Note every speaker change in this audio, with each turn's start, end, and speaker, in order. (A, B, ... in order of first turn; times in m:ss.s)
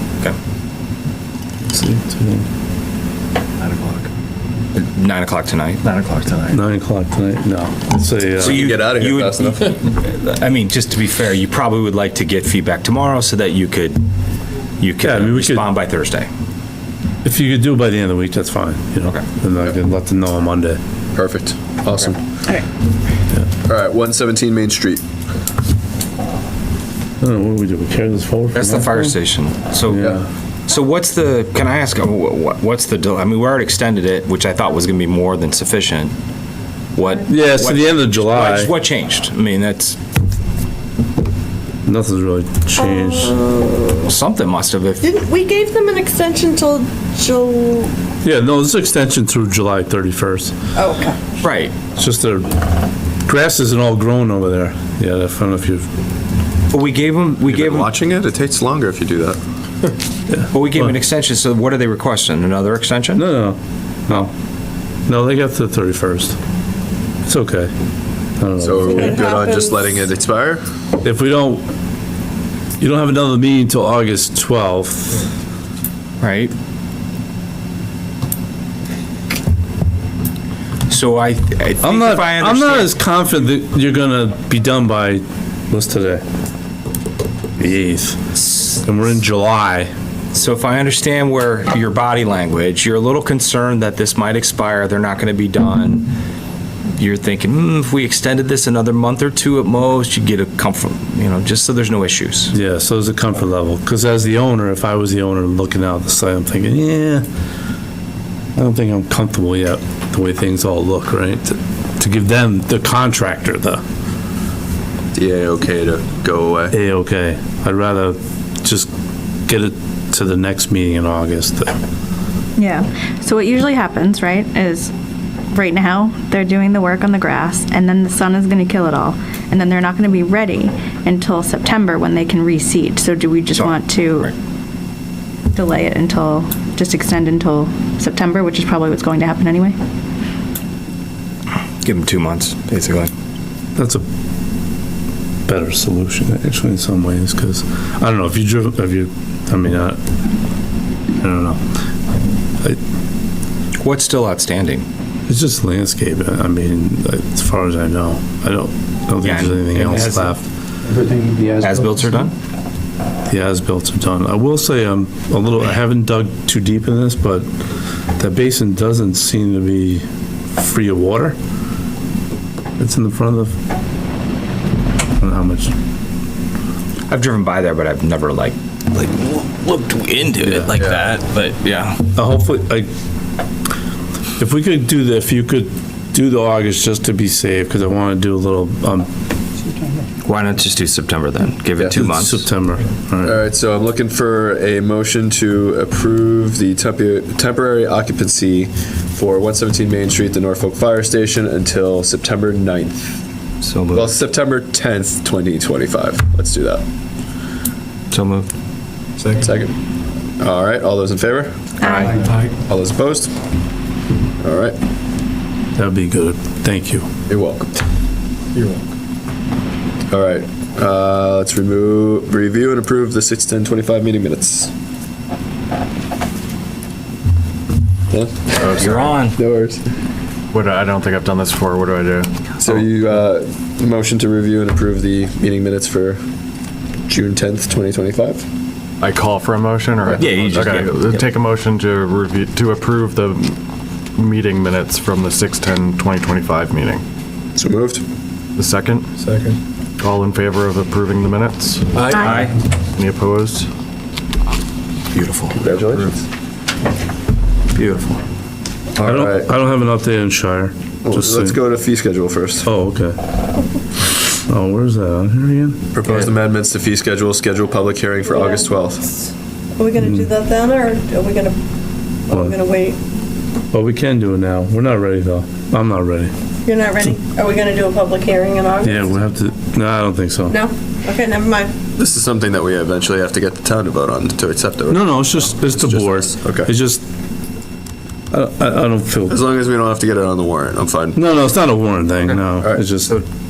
0:01.7-0:02.5 A
0:03.6-0:04.0 B
0:04.7-0:06.2 C
0:06.5-0:08.6 A
0:08.4-0:14.0 C
0:08.4-0:09.8 D
0:14.8-0:16.3 C
0:15.0-0:15.7 A
0:17.2-0:20.8 A
0:21.1-0:22.2 D
0:23.6-0:25.0 D
0:27.2-0:29.2 A
0:28.5-0:30.2 C
0:29.9-0:30.2 A
0:30.7-0:36.1 C
0:36.9-0:40.0 C
0:37.3-0:38.7 A
0:41.8-0:43.4 A
0:42.8-0:44.1 E
0:44.0-0:45.0 C
0:45.0-0:47.9 E
0:48.2-0:50.5 A
0:50.8-0:51.2 E
0:51.4-0:51.7 C
0:52.0-0:52.6 A
0:53.2-0:55.9 A
0:56.7-0:57.9 C
0:57.4-0:59.4 D
1:00.3-1:00.9 A
1:00.5-1:03.2 C
1:03.1-1:04.3 A
1:05.1-1:06.4 A
1:07.2-1:07.7 A
1:08.4-1:09.2 A
1:08.6-1:10.6 D
1:08.8-1:09.8 E
1:11.0-1:11.6 A
1:12.8-1:15.2 A
1:16.2-1:16.5 C
1:20.9-1:22.9 C
1:21.8-1:26.2 A
1:27.6-1:28.2 A
1:28.7-1:29.9 A
1:30.3-1:36.1 C
1:36.9-1:42.5 C
1:42.5-1:47.2 A
1:48.6-1:53.8 A
1:55.1-1:56.7 D
1:56.7-1:58.9 A
1:59.5-2:01.7 A
2:02.6-2:04.9 F
2:05.5-2:14.3 F
2:13.5-2:14.3 C
2:15.5-2:19.8 F
2:21.8-2:23.1 C
2:23.8-2:24.0 A
2:25.5-2:30.0 A
2:31.2-2:31.6 A
2:33.8-2:34.8 C
2:35.3-2:40.4 A
2:39.2-2:40.4 C
2:41.6-2:42.3 C
2:43.3-2:47.5 A
2:48.2-2:50.0 A
2:50.5-2:51.4 A
2:52.8-2:53.5 A
2:55.2-2:55.7 A
2:57.1-3:02.0 C
3:00.7-3:01.1 D
3:02.1-3:02.9 A
3:04.4-3:09.1 A
3:10.2-3:12.5 C
3:11.9-3:13.4 A
3:13.2-3:23.2 D
3:23.6-3:24.1 C
3:23.9-3:26.8 D
3:28.1-3:28.5 C
3:29.3-3:29.7 D
3:30.4-3:31.6 D
3:31.8-3:32.2 C
3:31.8-3:32.1 F
3:32.6-3:33.3 D
3:34.4-3:34.8 D
3:35.8-3:37.1 A
3:37.3-3:37.7 D
3:40.1-3:44.7 D
3:48.1-3:49.8 D
3:48.7-3:49.1 B
3:48.7-3:49.4 C
3:50.5-3:52.2 B
3:52.6-3:56.2 D
3:57.1-3:58.4 D
3:59.0-4:03.6 B
4:00.2-4:01.2 C
4:04.2-4:07.0 B
4:07.6-4:08.0 D
4:08.6-4:09.1 B
4:10.0-4:11.8 B
4:12.0-4:12.6 C
4:13.0-4:13.7 B
4:15.1-4:15.6 C
4:15.5-4:16.1 D
4:17.8-4:18.1 C
4:19.0-4:19.5 D
4:19.0-4:21.6 A
4:21.0-4:22.7 D
4:22.6-4:23.2 A
4:24.1-4:26.3 A
4:25.9-4:29.1 D
4:28.3-4:28.7 E
4:29.8-4:31.6 E
4:30.0-4:30.3 A
4:32.3-4:33.0 E
4:33.7-4:36.3 A
4:36.6-4:39.1 E
4:38.8-4:40.6 A
4:40.5-4:41.7 E
4:42.0-4:46.7 D
4:44.9-4:47.0 A
4:48.3-4:49.4 A
4:49.3-4:51.2 D
4:51.1-4:53.1 A